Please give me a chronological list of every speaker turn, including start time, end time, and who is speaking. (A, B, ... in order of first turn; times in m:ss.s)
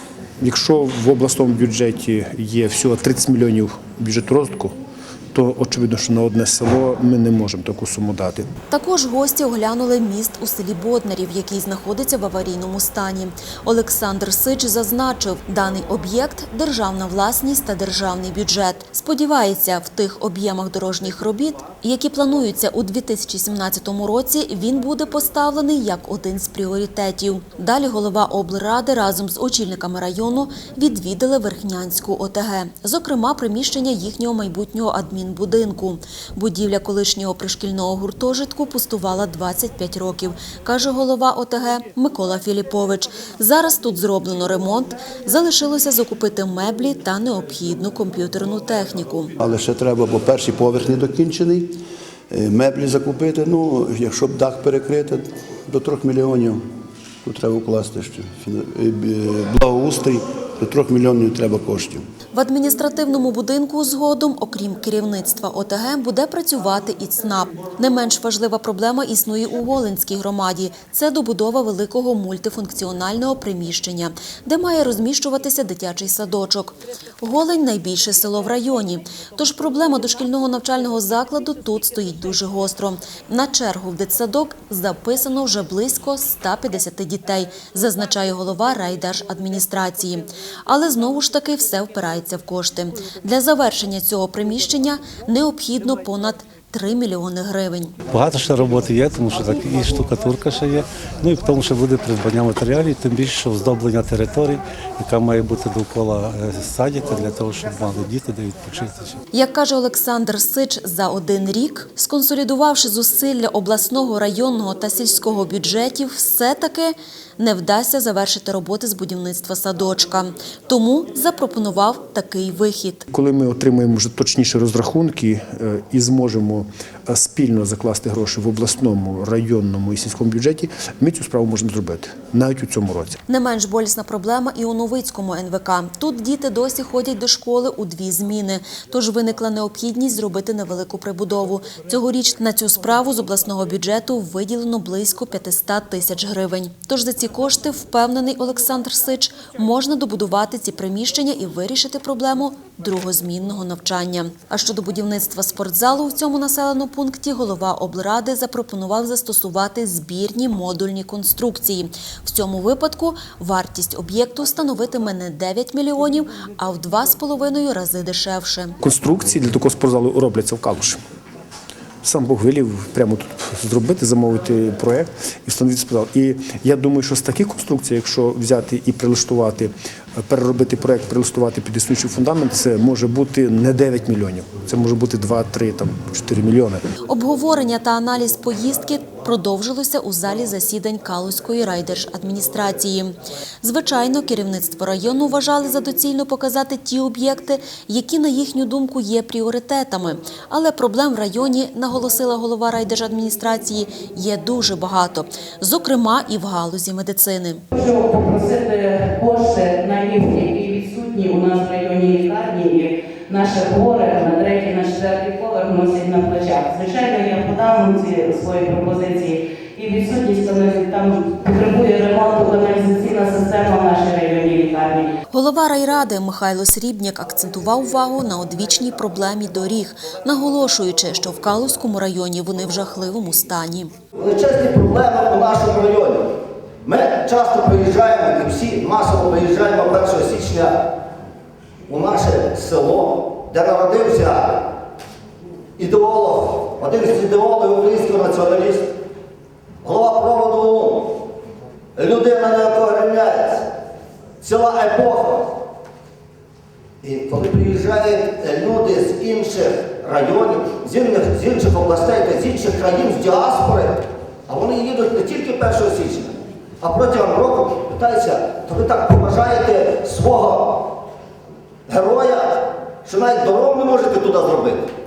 0:00.4-0:04.8 A
0:05.3-0:08.5 A
0:08.7-0:49.3 B
0:49.4-0:51.8 C
0:52.3-0:56.6 C
0:57.2-1:02.0 C
1:02.3-1:38.0 B
1:38.1-1:49.2 D
1:49.3-2:03.1 B
2:03.1-2:13.2 A
2:13.3-2:48.8 B
2:48.8-2:51.0 A
2:52.0-3:06.8 A
3:07.1-3:27.6 B
3:27.7-3:45.1 E
3:45.3-3:53.9 B
3:54.2-4:00.9 F
4:01.9-4:04.7 F
4:05.8-4:08.9 F
4:09.8-4:11.3 F
4:12.0-4:13.7 F
4:14.4-4:15.6 F
4:17.0-4:31.0 F
4:31.9-4:34.9 F